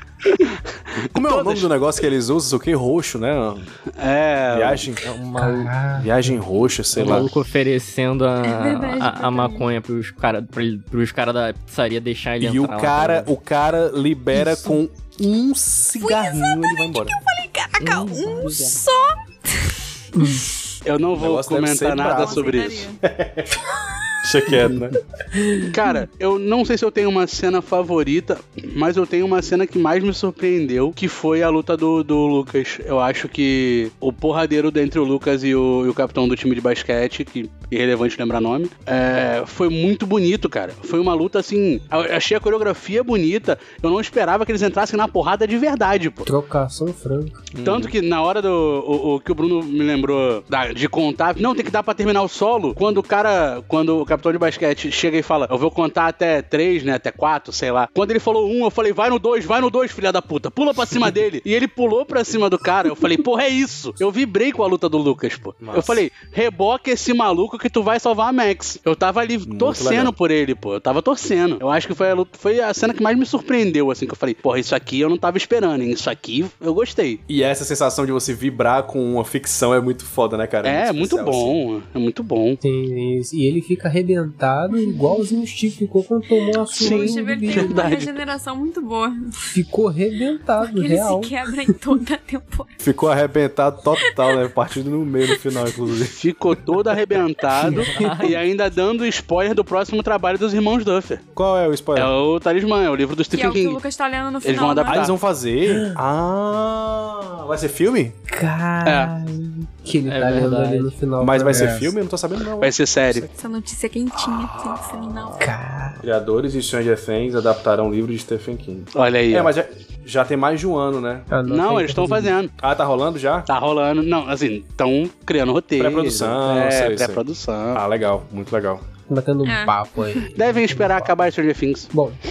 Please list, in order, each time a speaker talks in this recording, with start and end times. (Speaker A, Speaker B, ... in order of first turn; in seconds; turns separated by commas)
Speaker A: 0.4-1.7, Speaker B: 1.1-3.7, Speaker A: 4.0-4.9, Speaker B: 4.5-5.0, Speaker C: 5.0-5.8, Speaker D: 5.3-6.4, Speaker B: 6.0-7.3, Speaker C: 6.9-13.3, Speaker E: 8.4-9.7, Speaker B: 12.4-17.2, Speaker C: 14.4-14.7, Speaker E: 16.0-20.6, Speaker C: 17.8-18.8, Speaker D: 20.1-20.4, Speaker A: 20.8-22.9, Speaker B: 21.1-23.6, Speaker E: 22.0-23.0, Speaker B: 24.2-25.0, Speaker D: 25.4-25.7, Speaker A: 25.7-46.3, Speaker D: 46.2-47.4, Speaker B: 47.5-47.9, Speaker A: 47.6-77.2, Speaker B: 65.6-66.0, Speaker B: 69.4-70.1, Speaker B: 77.3-81.6, Speaker A: 80.6-82.6, Speaker D: 82.6-87.9, Speaker E: 84.7-85.4, Speaker E: 86.7-89.2, Speaker A: 86.8-88.2, Speaker D: 89.5-91.7, Speaker E: 90.6-92.7, Speaker B: 92.8-96.2, Speaker E: 94.0-94.4, Speaker A: 96.2-101.2, Speaker C: 97.7-98.4, Speaker D: 97.7-98.3, Speaker B: 101.3-102.1, Speaker A: 102.0-103.8, Speaker E: 103.3-105.0, Speaker A: 104.4-105.1, Speaker B: 104.9-108.2, Speaker D: 105.7-106.0, Speaker D: 108.3-111.9, Speaker A: 108.8-109.1, Speaker C: 110.0-110.9, Speaker B: 111.2-113.3, Speaker A: 112.6-113.3, Speaker E: 113.4-115.5, Speaker B: 114.1-121.3, Speaker D: 115.4-116.0, Speaker A: 118.9-119.5, Speaker D: 121.3-122.3, Speaker A: 121.5-122.5, Speaker B: 122.6-123.5, Speaker A: 123.5-127.8, Speaker B: 125.8-128.8, Speaker D: 129.1-131.1, Speaker E: 129.4-130.2, Speaker A: 130.3-131.9, Speaker D: 131.9-132.2